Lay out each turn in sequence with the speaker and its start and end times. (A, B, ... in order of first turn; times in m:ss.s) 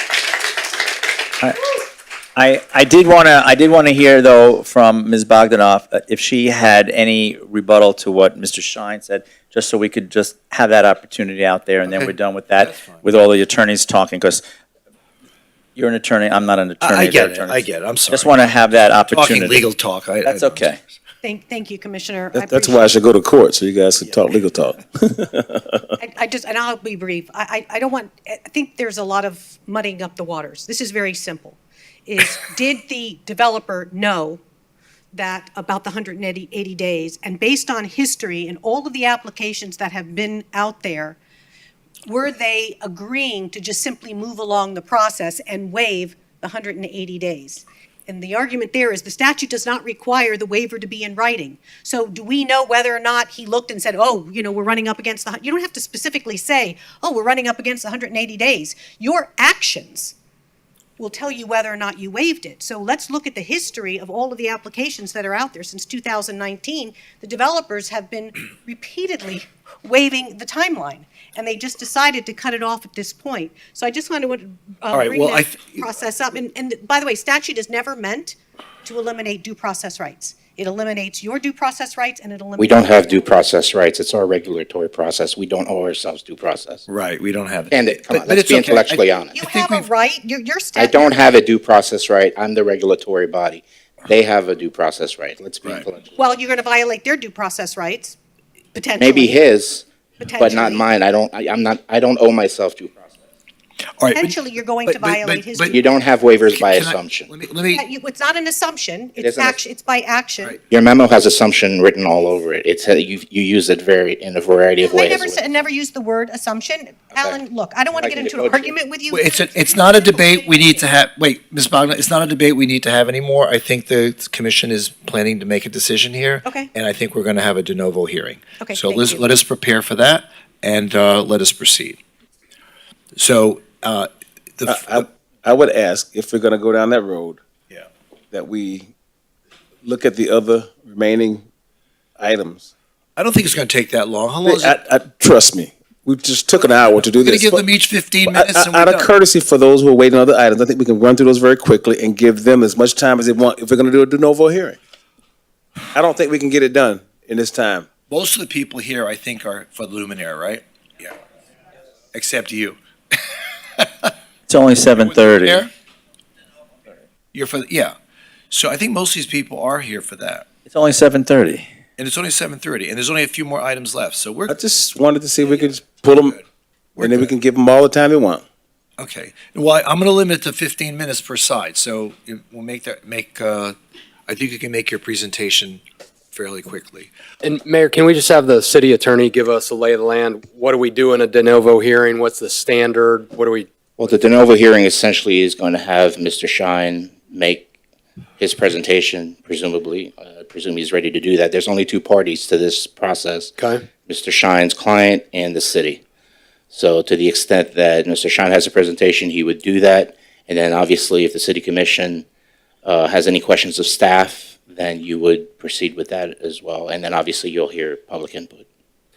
0:02.4-0:14.4 A
0:11.8-0:13.0 B
0:15.8-0:19.6 A
0:16.8-0:18.4 B
0:19.1-0:20.9 B
0:20.2-0:20.8 A
0:21.2-0:22.9 C
0:22.3-0:25.8 D
0:26.0-0:34.4 C
0:35.1-0:41.2 C
0:42.0-1:00.1 C
1:01.0-1:23.4 C
1:14.9-1:15.8 B
1:22.6-1:26.8 E
1:26.9-1:29.9 B
1:27.7-1:29.4 E
1:29.3-1:31.2 C
1:30.8-1:36.2 E
1:36.2-1:38.2 C
1:38.7-1:39.4 C
1:39.0-1:39.8 E
1:40.2-1:40.8 C
1:40.4-1:43.1 E
1:44.0-1:45.8 B
1:44.1-1:45.8 C
1:45.7-1:47.3 E
1:46.5-1:47.8 B
1:47.7-1:50.6 C
1:49.2-1:49.6 E
1:50.7-1:55.6 E
1:54.8-2:00.8 C
1:57.1-1:57.4 E
1:57.9-1:58.7 E
1:59.1-2:12.0 B
2:06.4-2:06.7 C
2:08.6-2:09.2 C
2:13.2-2:15.0 B
2:14.6-2:17.4 D
2:18.3-2:18.9 D
2:19.8-2:21.4 D
2:22.2-2:22.7 D
2:23.2-2:24.8 B
2:24.4-2:27.6 D
2:27.1-2:29.1 B
2:28.2-2:34.8 D
2:35.9-2:37.9 D
2:38.1-2:41.1 B
2:42.1-2:42.8 B
2:43.3-2:44.1 B
2:44.5-2:45.7 A
2:45.0-2:45.7 B
2:47.3-2:47.9 B
2:48.5-2:50.5 B
2:50.7-2:51.7 A
2:52.0-2:54.5 B
2:54.5-2:56.4 D
2:57.0-2:57.3 B
2:57.0-2:58.4 D
2:59.0-3:03.8 B
3:04.3-3:07.1 B
3:07.4-3:13.7 F
3:14.0-3:17.7 E
3:18.4-3:23.5 E
3:23.6-3:23.8 F
3:24.1-3:26.0 E
3:26.7-3:32.2 E
3:32.8-3:38.6 E